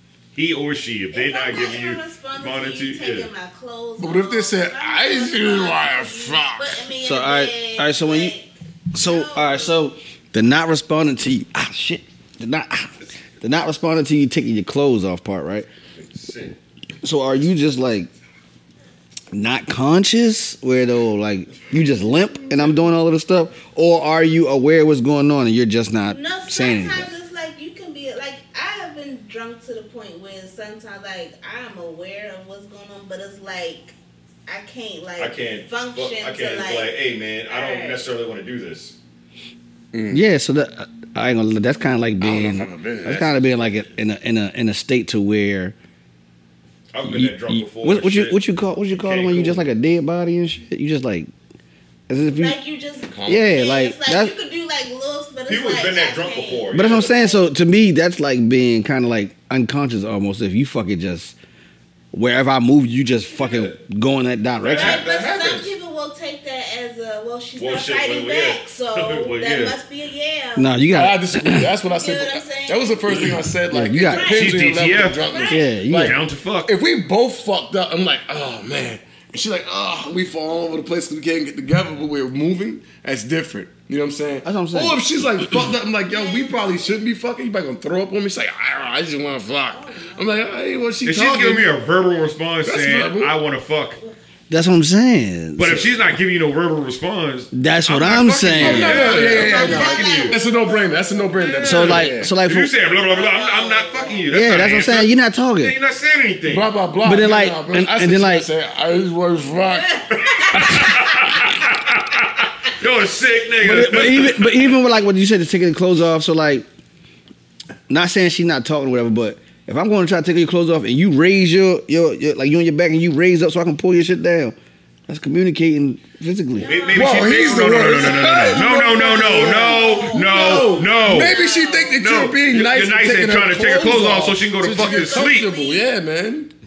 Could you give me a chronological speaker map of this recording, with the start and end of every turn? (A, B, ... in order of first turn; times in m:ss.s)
0:00.3-0:03.3 A
0:01.1-0:09.7 B
0:04.0-0:06.8 C
0:07.0-0:08.3 D
0:08.9-0:15.7 D
0:16.0-0:16.5 A
0:17.0-0:18.1 D
0:19.3-0:27.1 D
0:26.1-0:33.9 B
0:34.4-0:36.9 B
0:35.2-0:38.9 A
0:37.5-0:38.0 B
0:39.9-0:40.2 C
0:40.1-0:45.7 D
0:42.2-0:43.4 C
0:46.9-0:48.4 A
0:47.0-0:51.3 D
0:48.9-0:49.7 A
0:52.1-0:52.6 D
0:52.3-0:57.4 B
0:53.1-0:53.5 C
0:53.3-0:54.3 D
0:55.5-0:57.1 A
0:56.7-1:01.3 D
1:02.1-1:05.0 D
1:03.4-1:03.7 A
1:04.6-1:05.7 A
1:04.7-1:10.8 B
1:07.6-1:09.8 A
1:10.6-1:11.7 D
1:10.9-1:31.7 C
1:11.9-1:13.0 B
1:13.7-1:14.3 D
1:14.1-1:14.5 B
1:14.3-1:15.3 A
1:15.2-1:15.7 B
1:15.5-1:16.2 D
1:15.9-1:16.7 A
1:24.4-1:25.0 D
1:26.1-1:27.0 B
1:29.7-1:31.0 B
1:31.0-1:34.0 A
1:32.6-1:33.3 C
1:34.5-1:36.0 D
1:35.6-1:40.4 A
1:37.5-1:39.2 D
1:38.6-1:42.3 C
1:38.6-1:42.1 B
1:41.5-1:46.7 A
1:41.6-1:42.7 D
1:42.9-1:44.7 B
1:44.3-1:45.8 D
1:46.5-1:50.0 C
1:47.0-1:48.5 D
1:49.7-1:51.5 B
1:50.1-1:54.7 A
1:53.6-1:56.6 D
1:57.9-2:04.5 D
2:05.1-2:06.7 D
2:06.5-2:12.1 B
2:06.6-2:11.3 A
2:06.9-2:16.5 C
2:12.0-2:15.5 A
2:14.8-2:15.8 B